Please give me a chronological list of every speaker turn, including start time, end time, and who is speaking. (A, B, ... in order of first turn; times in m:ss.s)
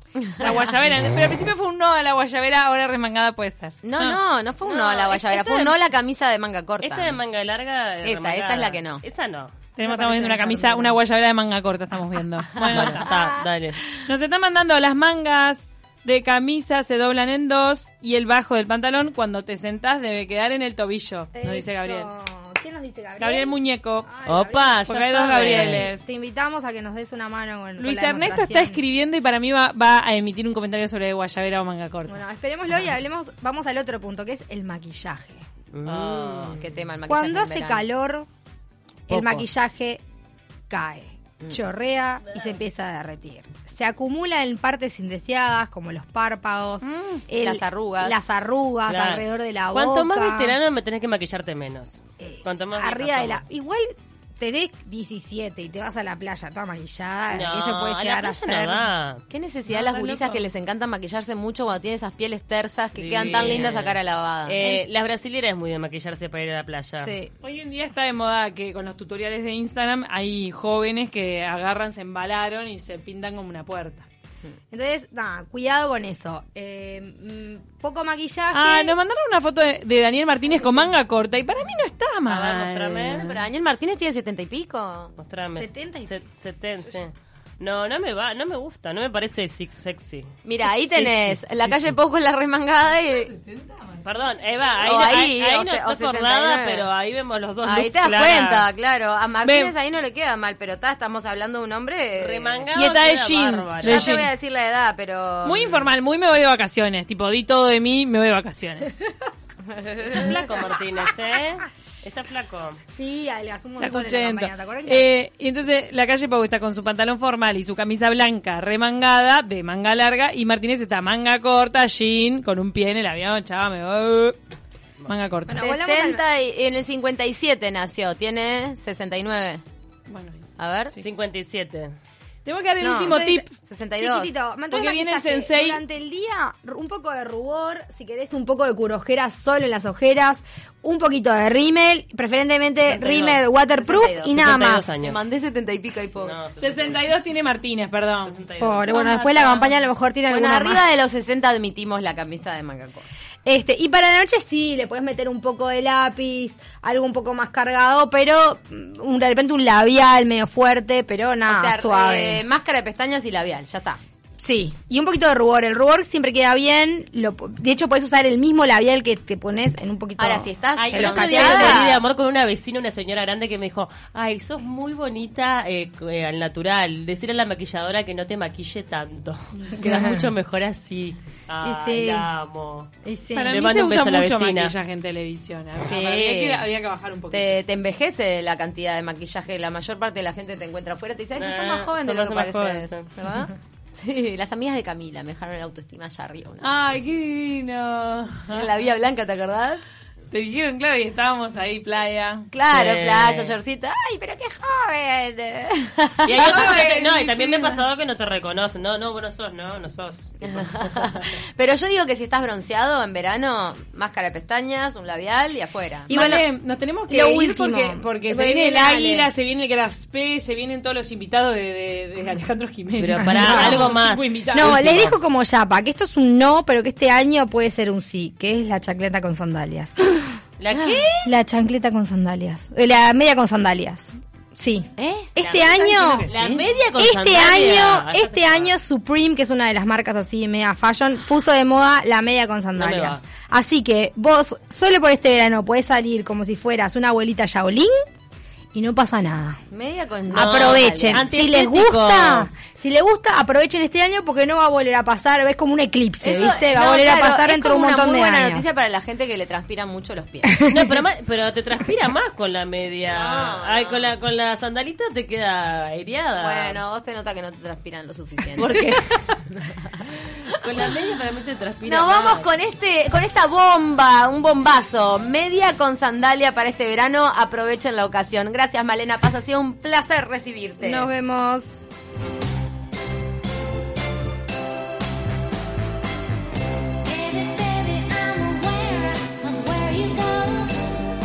0:00.2-0:00.6 A
0:00.4-0:04.2 B
0:03.8-0:07.2 A
0:04.6-0:05.8 C
0:06.8-0:09.5 C
0:08.0-0:09.0 A
0:09.8-0:13.2 B
0:09.8-0:11.0 D
0:12.6-0:13.0 A
0:12.7-0:13.8 C
0:14.0-0:22.1 B
0:21.4-0:24.8 D
0:23.2-0:24.1 B
0:24.3-0:25.9 C
0:24.9-0:26.0 B
0:25.4-0:28.8 D
0:27.8-0:32.2 B
0:32.1-0:35.4 D
0:35.7-0:36.7 C
0:35.8-0:37.9 A
0:37.1-0:38.3 D
0:39.1-0:40.0 D
0:39.1-0:39.4 C
0:40.7-0:50.6 D
0:46.8-0:47.2 B
0:47.4-0:48.2 A
0:48.9-0:53.4 C
0:52.2-0:58.9 D
0:57.3-0:59.2 C
0:59.3-1:04.6 A
0:59.7-1:00.5 B
1:03.0-1:07.2 C
1:03.3-1:03.6 D
1:07.0-1:07.3 D
1:07.4-1:14.1 B
1:14.7-1:19.0 D
1:18.5-1:23.4 B
1:20.5-1:20.8 D
1:22.3-1:23.3 C
1:23.0-1:25.2 A
1:25.2-1:30.3 C
1:25.6-1:26.1 D
1:30.4-1:33.3 A
1:33.1-1:34.0 B
1:34.0-1:38.7 C
1:34.8-1:36.9 A
1:37.6-1:42.7 A
1:39.4-1:39.8 B
1:42.2-1:44.2 C
1:42.7-1:44.3 B
1:43.8-1:45.9 A
1:45.4-1:49.0 B
1:49.7-1:52.8 C
1:52.9-1:55.1 D
1:53.8-2:04.4 B
2:05.1-2:05.7 B
2:05.5-2:06.2 D
2:05.5-2:09.6 A
2:10.1-2:11.0 B
2:10.6-2:11.0 A
2:11.0-2:11.9 C
2:12.4-2:13.5 B
2:12.8-2:14.4 A
2:13.0-2:13.4 D
2:14.0-2:24.9 D
2:14.7-2:15.8 B
2:22.9-2:23.4 C
2:23.7-2:26.4 A
2:24.3-2:25.2 C
2:26.2-2:27.1 C
2:26.6-2:29.7 B
2:28.2-2:29.5 C
2:28.6-2:30.8 D
2:30.3-2:33.1 A
2:33.4-2:42.4 D
2:41.5-2:44.0 A
2:44.4-2:52.0 D
2:50.2-2:52.0 A
2:50.8-3:02.9 C
2:59.8-3:00.3 D
3:01.6-3:02.3 D
3:03.0-3:03.5 D
3:03.3-3:07.6 B
3:03.5-3:04.7 C
3:05.8-3:06.7 A
3:07.3-3:16.7 A
3:11.4-3:13.1 C
3:16.6-3:18.7 B
3:18.5-3:19.8 A
3:20.3-3:22.5 B
3:22.5-3:26.7 A
3:22.7-3:23.6 C
3:26.2-3:31.2 C
3:26.3-3:27.8 B
3:30.4-3:36.1 A
3:36.1-3:44.8 B
3:36.1-3:36.4 D
3:37.1-3:39.3 D
3:43.0-3:45.2 C
3:43.2-3:44.0 D
3:44.5-3:50.4 D
3:50.6-3:51.3 C
3:50.7-3:51.0 A
3:51.2-3:56.3 D
3:55.0-3:55.3 A
3:55.4-3:58.7 C
3:55.4-3:56.7 B
3:57.0-4:08.0 D
4:02.8-4:03.2 C
4:08.7-4:09.6 D
4:09.7-4:11.3 A
4:10.3-4:18.6 D
4:10.3-4:12.5 C
4:16.2-4:20.5 A
4:20.4-4:21.0 D
4:20.7-4:26.8 C
4:23.1-4:24.1 A
4:26.4-4:28.9 A
4:28.6-4:29.4 C
4:29.5-4:30.6 A
4:30.5-4:32.5 C
4:31.8-4:41.1 A
4:40.8-4:41.8 D
4:47.1-4:50.8 A